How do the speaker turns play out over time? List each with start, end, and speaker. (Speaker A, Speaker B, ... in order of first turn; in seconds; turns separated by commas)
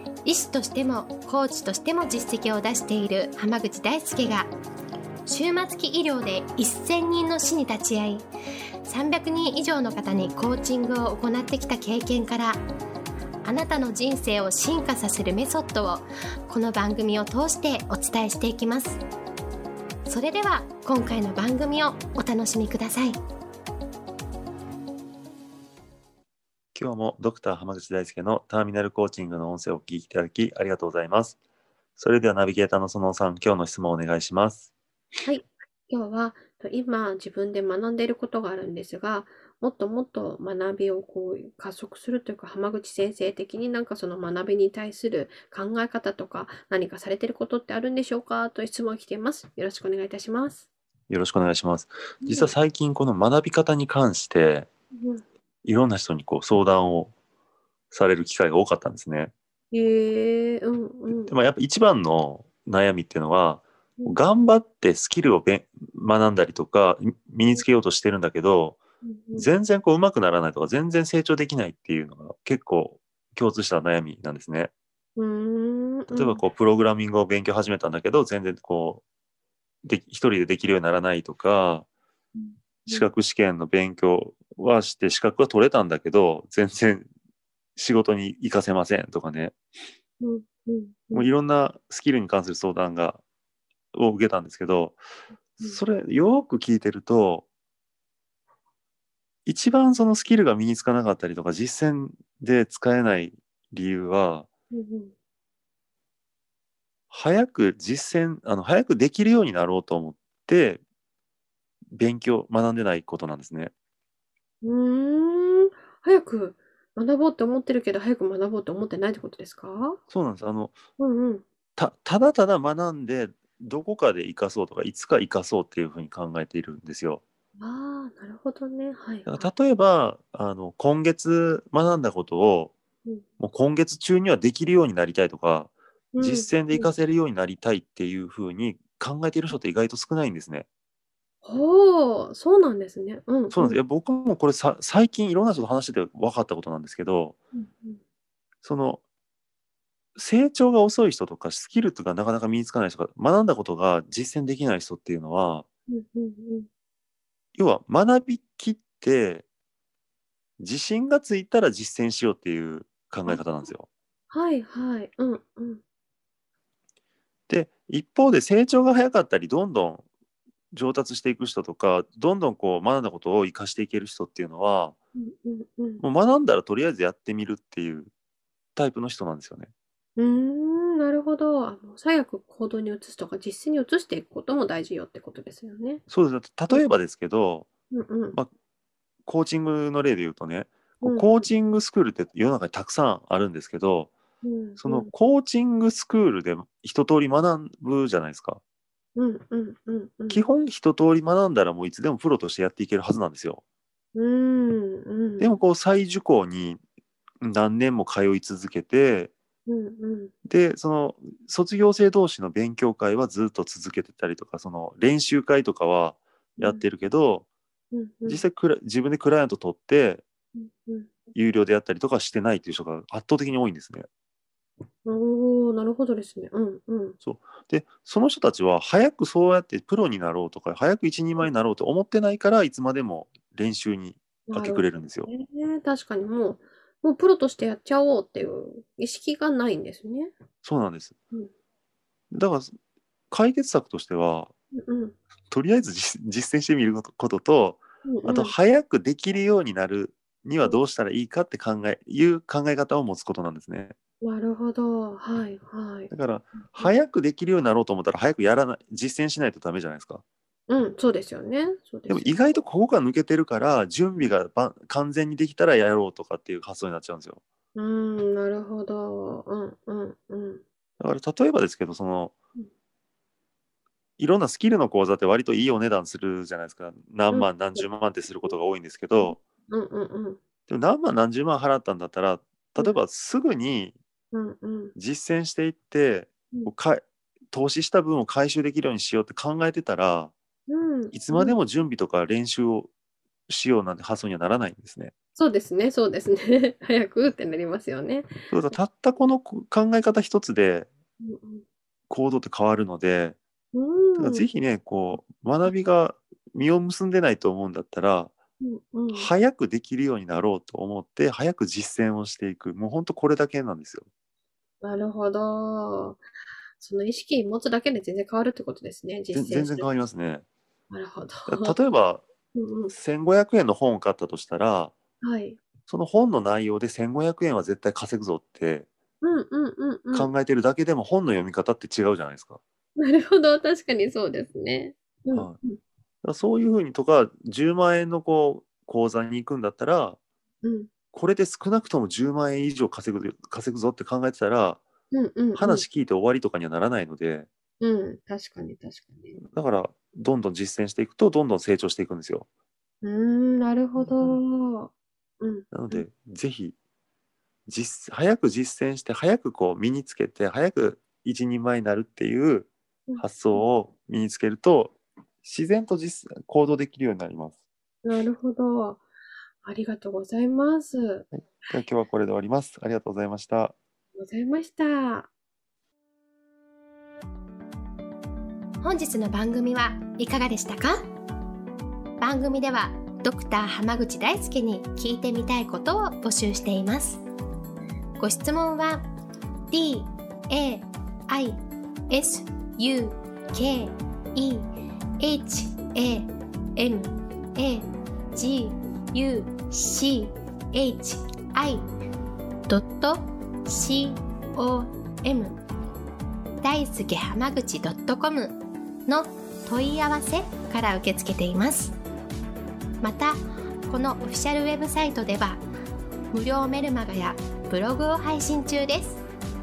Speaker A: 0.2-4.5, Speaker A: 5.3-8.3, Speaker A: 8.8-12.6, Speaker A: 13.4-19.0, Speaker A: 20.1-23.2, Speaker B: 26.7-31.4, Speaker B: 32.0-34.7, Speaker C: 35.2-50.7, Speaker B: 51.1-54.7, Speaker C: 52.2-52.5, Speaker C: 55.0-55.2, Speaker B: 55.6-57.1, Speaker B: 57.9-59.3, Speaker C: 59.7-61.3, Speaker B: 61.1-68.8, Speaker C: 69.0-69.5, Speaker B: 69.4-74.7, Speaker C: 75.2-76.4, Speaker B: 76.1-79.0, Speaker B: 79.8-81.9, Speaker C: 82.3-83.1, Speaker B: 82.9-87.1, Speaker B: 87.8-89.5, Speaker C: 90.2-91.3, Speaker B: 91.1-93.2, Speaker B: 93.9-95.0, Speaker B: 95.6-97.5, Speaker B: 99.5-104.5, Speaker C: 104.7-105.1, Speaker B: 107.1-110.8, Speaker B: 111.9-113.7, Speaker C: 114.6-120.0, Speaker B: 120.1-120.8, Speaker C: 121.0-121.4, Speaker B: 121.8-127.2, Speaker C: 127.6-129.5, Speaker B: 129.3-132.8, Speaker B: 133.4-140.7, Speaker C: 136.1-136.9, Speaker C: 141.4-143.8, Speaker B: 143.5-147.4, Speaker C: 147.6-148.0, Speaker B: 148.6-149.0, Speaker B: 150.2-155.7, Speaker C: 155.9-156.7, Speaker B: 157.6-159.5, Speaker B: 160.6-163.9, Speaker C: 164.3-165.8, Speaker B: 167.5-170.1, Speaker B: 170.7-175.0, Speaker C: 175.2-176.0, Speaker B: 176.0-178.1, Speaker B: 178.8-179.7, Speaker C: 180.2-186.0, Speaker B: 186.1-187.7, Speaker C: 187.9-188.4, Speaker B: 189.3-194.1, Speaker C: 191.0-191.5, Speaker C: 194.4-195.1, Speaker B: 194.8-198.6, Speaker C: 199.2-200.4, Speaker B: 200.3-203.6, Speaker C: 204.2-205.6, Speaker B: 205.4-206.8, Speaker B: 207.4-209.3, Speaker C: 209.7-210.3, Speaker B: 210.4-217.5, Speaker C: 216.6-216.8, Speaker C: 217.9-218.4, Speaker B: 218.2-220.2, Speaker C: 220.6-221.2, Speaker B: 221.3-224.1, Speaker C: 225.1-227.2, Speaker B: 227.2-235.3, Speaker C: 234.5-240.3, Speaker B: 240.6-241.2, Speaker B: 242.3-242.7, Speaker B: 243.3-244.5, Speaker C: 244.7-245.2, Speaker B: 245.5-253.9, Speaker C: 248.1-248.5, Speaker C: 254.2-256.1, Speaker B: 256.1-260.2, Speaker C: 256.6-256.9, Speaker C: 260.7-262.3, Speaker B: 262.1-267.4, Speaker C: 267.8-270.6, Speaker B: 271.0-272.3, Speaker B: 274.2-279.4, Speaker C: 277.3-277.8, Speaker C: 279.2-280.4, Speaker B: 280.7-283.9, Speaker C: 284.3-284.9, Speaker B: 284.9-287.0, Speaker B: 287.5-290.3, Speaker C: 290.7-291.6, Speaker B: 291.1-292.9, Speaker B: 293.5-295.1, Speaker C: 295.4-298.5, Speaker B: 298.5-300.9, Speaker C: 301.2-301.6, Speaker B: 302.1-303.4, Speaker C: 303.7-304.5, Speaker B: 304.2-308.3, Speaker C: 308.6-309.3, Speaker B: 309.1-314.1, Speaker C: 314.8-316.2, Speaker C: 316.8-319.9, Speaker B: 319.3-320.4, Speaker C: 320.9-321.8, Speaker B: 321.5-322.2, Speaker C: 322.5-322.9, Speaker B: 322.9-324.9, Speaker C: 325.2-325.6, Speaker B: 325.9-328.9, Speaker C: 329.2-330.3, Speaker B: 330.1-332.6, Speaker C: 333.0-335.8, Speaker B: 336.2-340.2, Speaker C: 340.6-340.9, Speaker B: 341.1-344.8, Speaker C: 345.1-345.8, Speaker B: 345.6-347.5, Speaker C: 347.8-349.4, Speaker B: 349.4-352.5, Speaker C: 353.0-356.0, Speaker B: 354.0-354.4, Speaker B: 355.7-356.8, Speaker B: 357.7-367.6, Speaker C: 363.1-363.6, Speaker C: 368.0-369.0, Speaker C: 369.6-371.2, Speaker B: 371.3-373.8, Speaker C: 374.1-375.3, Speaker A: 378.8-381.0, Speaker A: 382.2-387.2, Speaker A: 388.2-389.1, Speaker A: 389.7-394.7, Speaker A: 395.2-401.8, Speaker A: 402.7-405.6, Speaker A: 406.6-411.9, Speaker A: 413.0-415.6, Speaker A: 416.3-419.2